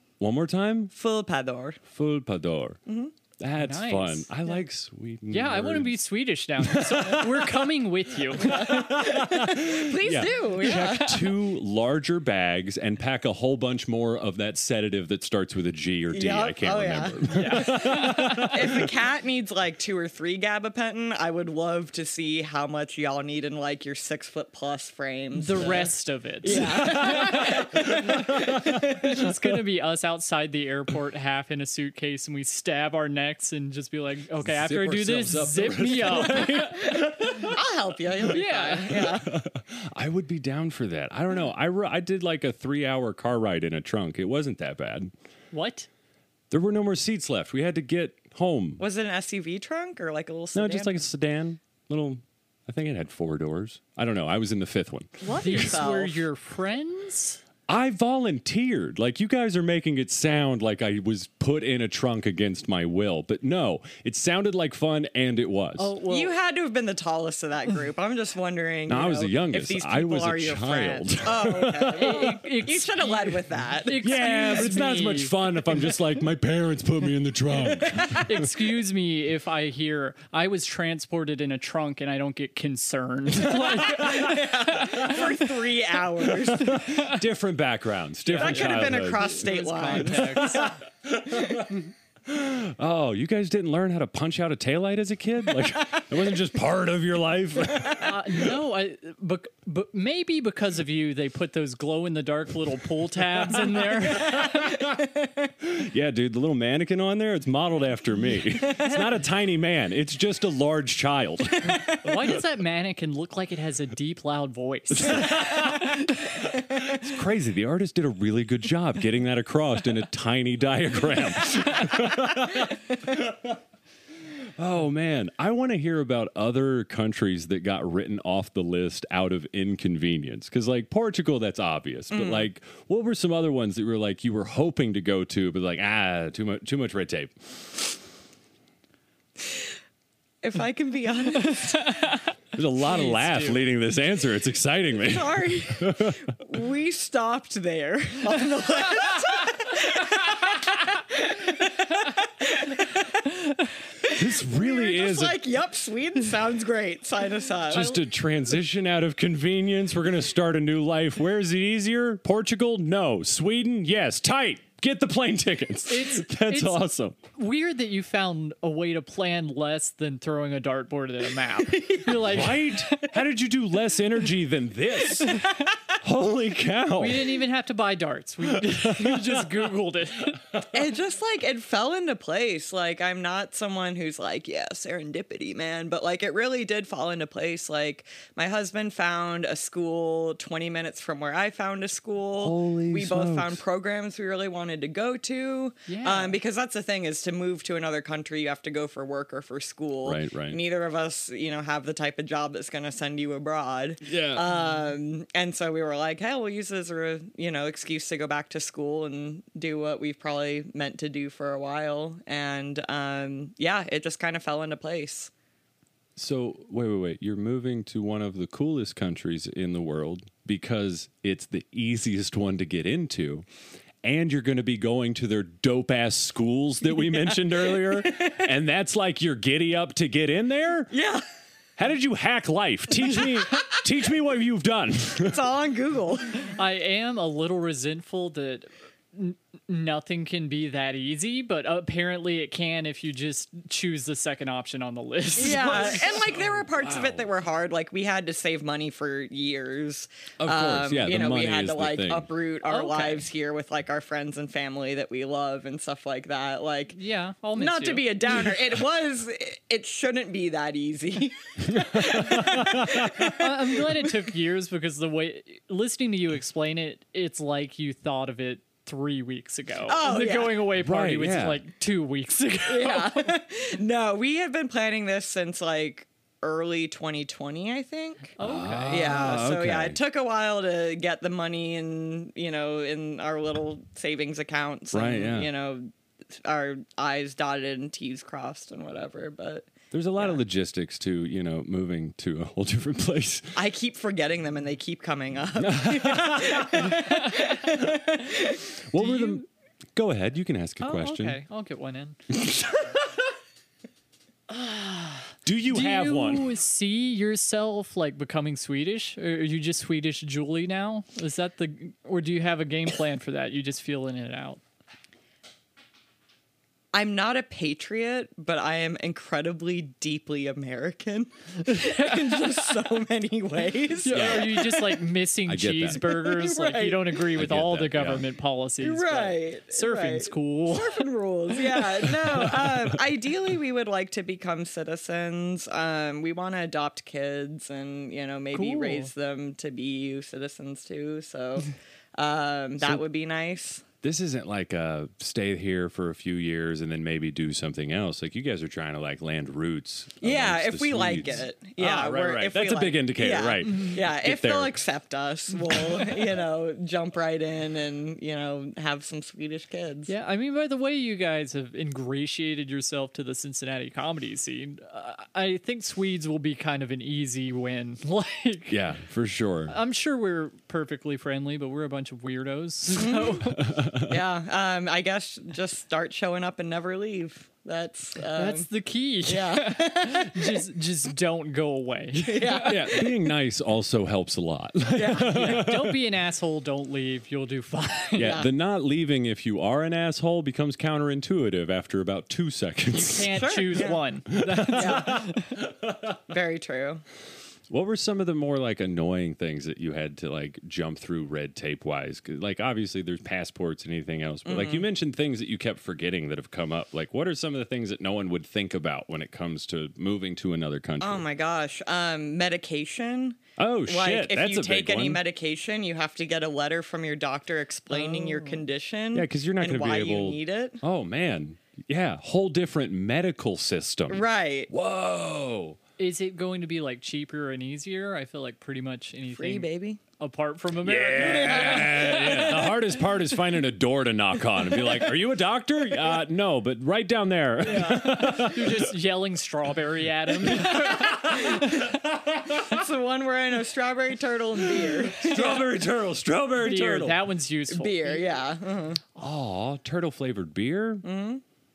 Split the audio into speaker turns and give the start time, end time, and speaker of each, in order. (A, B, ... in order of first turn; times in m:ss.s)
0:00.2-0:00.9 A
0:00.9-0:01.8 B
0:01.9-0:02.8 A
0:02.9-0:03.1 B
0:03.4-0:06.0 A
0:03.6-0:04.3 C
0:05.3-0:08.9 C
0:06.6-0:07.5 A
0:08.4-0:18.9 A
0:08.4-0:11.3 B
0:16.1-0:25.9 B
0:17.3-0:18.6 C
0:25.3-0:37.5 C
0:26.4-0:29.2 B
0:26.5-0:28.9 A
0:34.4-0:37.6 A
0:36.8-0:39.3 B
0:38.3-0:39.2 C
0:39.0-0:45.1 A
0:45.5-0:45.9 C
0:46.5-0:48.8 A
0:48.8-0:51.0 B
0:50.5-0:55.8 A
0:55.2-0:56.3 B
0:55.3-0:57.4 C
0:57.7-1:06.0 A
1:05.8-1:06.3 C
1:06.0-1:14.0 B
1:08.9-1:12.2 A
1:12.0-1:15.8 C
1:13.9-1:18.5 A
1:17.6-1:18.3 B
1:18.2-1:25.5 C
1:23.8-1:26.8 B
1:23.8-1:24.3 A
1:26.3-1:38.6 A
1:26.6-1:27.2 C
1:28.2-1:30.8 C
1:28.4-1:30.7 B
1:38.0-1:44.8 C
1:44.1-1:45.1 A
1:45.6-1:51.8 A
1:52.0-1:55.9 C
1:55.0-1:56.0 A
1:56.5-2:03.6 A
2:04.6-2:17.4 A
2:12.1-2:12.5 B
2:20.4-2:22.0 B
2:21.4-2:22.2 C
2:22.5-2:26.3 A
2:22.8-2:23.7 C
2:25.0-2:33.3 B
2:34.0-2:38.0 B
2:34.1-2:35.4 A
2:37.7-2:47.2 A
2:37.7-2:38.0 C
2:45.9-2:53.0 C
2:51.7-2:52.4 B
2:52.1-2:57.4 A
2:57.0-3:00.4 C
2:58.5-2:59.5 A
3:00.6-3:35.3 B
3:12.4-3:13.6 A
3:15.9-3:16.4 C
3:20.0-3:20.6 A
3:24.0-3:24.5 A
3:36.2-3:43.5 A
3:44.0-3:50.9 A
3:48.0-3:48.4 B
3:50.9-3:51.2 B
3:51.8-3:55.4 A
3:55.2-3:56.4 B
3:56.4-4:06.2 C
4:05.4-4:17.0 B
4:05.7-4:07.3 A
4:10.4-4:12.3 A
4:12.6-4:13.2 C
4:16.9-4:18.4 C
4:17.6-4:23.5 B
4:21.6-4:23.4 A
4:23.2-4:33.3 C
4:29.9-4:30.6 B
4:30.8-4:31.6 A
4:32.7-4:38.4 B
4:38.4-4:39.3 C
4:38.4-4:40.0 A
4:38.9-4:50.4 B
4:44.9-4:45.5 A
4:49.9-4:53.6 A
4:53.6-4:58.7 B
4:55.6-4:57.1 A
4:57.0-4:57.4 C
4:58.9-5:01.4 A
4:59.0-4:59.4 C
5:00.8-5:02.2 C
5:02.3-5:02.6 A
5:04.5-5:14.6 C
5:05.5-5:06.5 A
5:16.9-5:24.7 B
5:21.7-5:22.7 C
5:24.0-5:31.0 C
5:24.1-5:24.9 A
5:25.5-5:26.3 A
5:26.2-5:27.0 B
5:27.2-5:28.2 A
5:28.8-5:43.8 B
5:32.1-5:33.0 A
5:38.5-5:39.1 C
5:44.0-5:54.8 A
5:50.2-6:00.1 B
5:53.7-5:54.0 C
6:00.1-6:08.8 C
6:08.7-6:09.7 A
6:09.7-6:13.7 C
6:13.0-6:13.6 B
6:13.5-6:14.2 A
6:14.1-6:18.7 B
6:18.3-6:23.0 C
6:19.2-6:20.6 B
6:22.2-6:23.1 B
6:22.6-6:26.0 A
6:25.0-6:25.7 B
6:25.2-6:28.4 C
6:28.2-6:33.4 A
6:28.2-6:28.5 B
6:32.9-6:35.6 C
6:33.4-6:34.0 B
6:34.3-6:36.2 A
6:34.7-6:35.3 B
6:36.3-6:37.0 B
6:37.7-6:51.2 A
6:44.5-6:44.9 B
6:51.0-7:00.8 B
6:53.6-6:55.2 A
6:57.9-6:58.6 C
6:59.1-7:05.8 A
7:04.1-7:04.7 B
7:06.0-7:12.2 C
7:09.3-7:10.0 B
7:10.8-7:18.9 A
7:11.2-7:12.4 B
7:17.8-7:21.9 C
7:17.8-7:18.0 B
7:20.4-7:22.8 A
7:22.6-7:25.7 B
7:24.6-7:27.2 A
7:26.6-7:28.3 C
7:27.7-7:29.0 B
7:29.2-7:31.0 A
7:31.0-7:31.4 B